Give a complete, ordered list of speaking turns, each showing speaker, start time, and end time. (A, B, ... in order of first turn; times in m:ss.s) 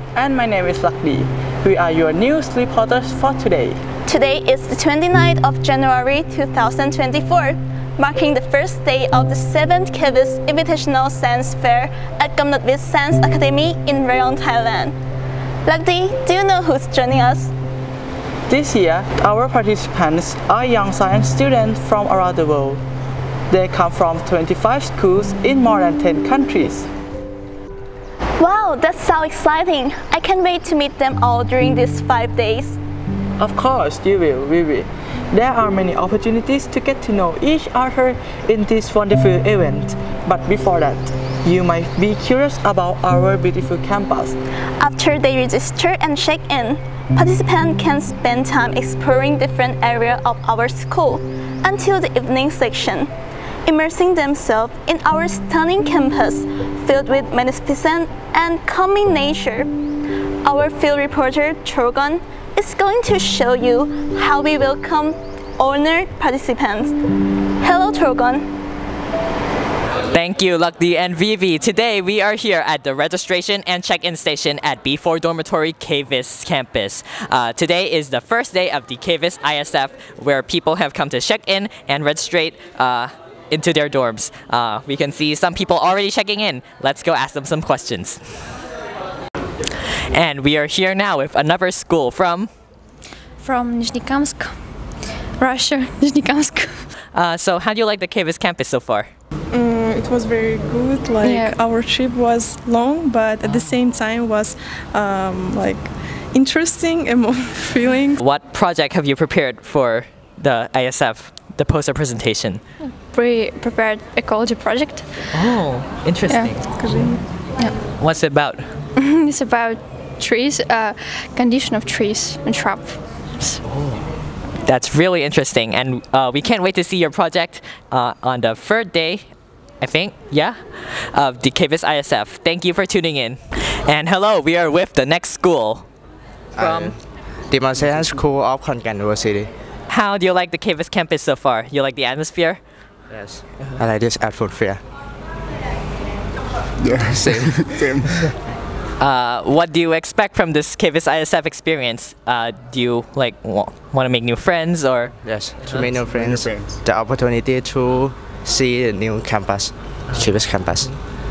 0:00.2-0:03.8 A
0:04.0-0:15.0 B
0:15.6-0:17.5 B
0:18.5-0:22.8 A
0:23.5-0:26.9 A
0:28.4-0:32.8 B
0:33.4-0:44.4 A
0:44.8-0:53.1 B
0:53.7-0:59.7 B
1:00.4-1:07.0 B
1:07.6-1:08.4 B
1:10.1-1:28.4 C
1:30.1-1:32.5 C
1:33.4-1:36.8 D
1:37.1-1:39.1 C
1:39.5-1:48.2 E
1:41.2-1:41.6 D
1:48.2-1:52.6 C
1:52.8-1:55.5 D
1:55.3-1:56.9 C
1:56.3-1:56.9 D
1:58.0-1:58.7 C
1:59.0-2:03.6 D
2:03.6-2:04.0 C
2:04.6-2:15.8 C
2:16.5-2:19.5 F
2:16.6-2:16.9 C
2:19.9-2:22.6 C
2:23.1-2:24.8 F
2:27.0-2:27.6 F
2:29.0-2:35.1 C
2:35.2-2:40.9 F